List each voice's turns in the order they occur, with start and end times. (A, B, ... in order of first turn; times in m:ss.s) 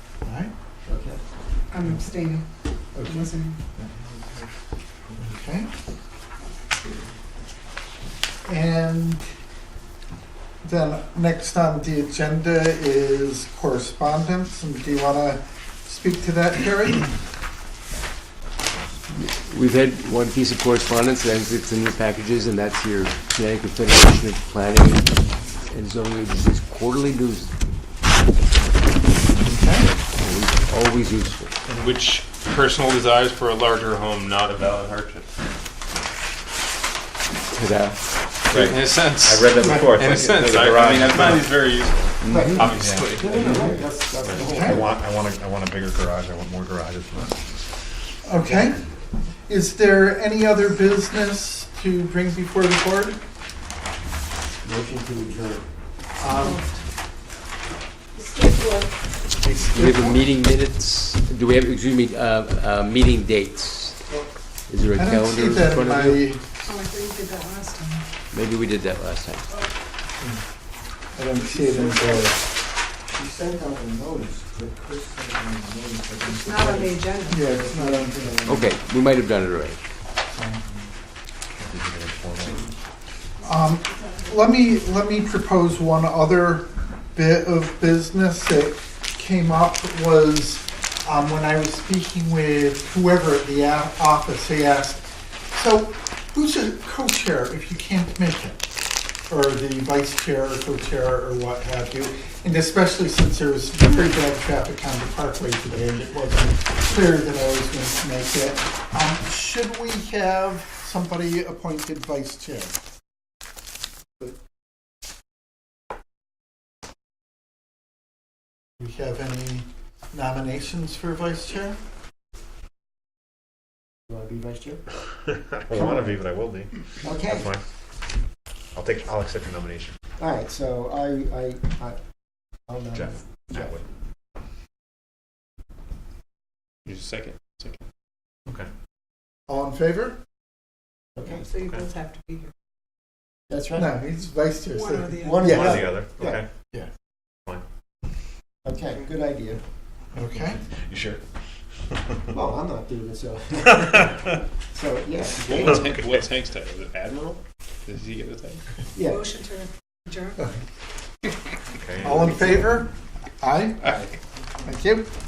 0:00.2-0:00.5 A
0:00.9-0:01.2 B
0:01.7-0:02.4 C
0:03.0-0:03.9 A
0:03.0-0:03.6 C
0:05.2-0:05.7 A
0:08.4-0:09.2 A
0:10.6-0:17.2 A
0:19.1-0:25.1 D
0:25.6-0:27.5 D
0:29.4-0:29.9 A
0:29.9-0:31.5 D
0:31.7-0:35.3 E
0:37.5-0:38.0 D
0:38.5-0:41.7 F
0:38.5-0:43.8 E
0:42.2-0:42.8 D
0:42.3-0:44.9 B
0:42.7-0:43.4 F
0:44.2-0:47.5 F
0:44.4-0:44.8 A
0:48.2-0:48.8 A
0:49.5-0:53.2 A
0:54.6-0:55.7 B
0:56.2-0:56.6 A
0:56.4-0:56.7 C
0:58.3-0:58.8 C
0:59.4-1:00.2 A
0:59.7-1:04.1 D
1:04.7-1:06.4 D
1:05.0-1:06.5 A
1:06.6-1:08.1 C
1:08.3-1:09.5 D
1:11.2-1:12.4 A
1:11.7-1:12.2 B
1:13.1-1:18.5 B
1:16.4-1:17.2 C
1:17.3-1:18.4 A
1:18.4-1:19.8 D
1:20.3-1:20.6 A
1:21.6-1:22.7 F
1:23.4-1:38.7 A
1:39.3-1:52.8 A
1:58.8-2:01.8 A
2:04.1-2:04.9 B
2:05.3-2:07.6 F
2:05.7-2:06.2 B
2:07.0-2:07.5 B
2:08.7-2:10.0 F
2:10.2-2:12.0 B
2:12.6-2:13.7 B
2:12.9-2:13.8 F
2:16.9-2:17.8 E
2:19.5-2:20.2 A
2:21.2-2:21.5 B
2:21.5-2:21.9 F
2:21.6-2:22.5 C
2:23.5-2:24.0 B
2:23.8-2:25.8 A
2:25.1-2:26.4 B
2:25.4-2:26.5 F
2:28.6-2:29.6 B
2:30.1-2:30.6 A
2:30.7-2:31.2 F
2:31.9-2:32.3 F
2:32.3-2:35.7 B
2:35.4-2:38.6 E
2:39.0-2:39.3 B
2:39.3-2:40.4 C
2:41.8-2:42.3 F
2:42.0-2:44.0 A
2:44.6-2:45.1 A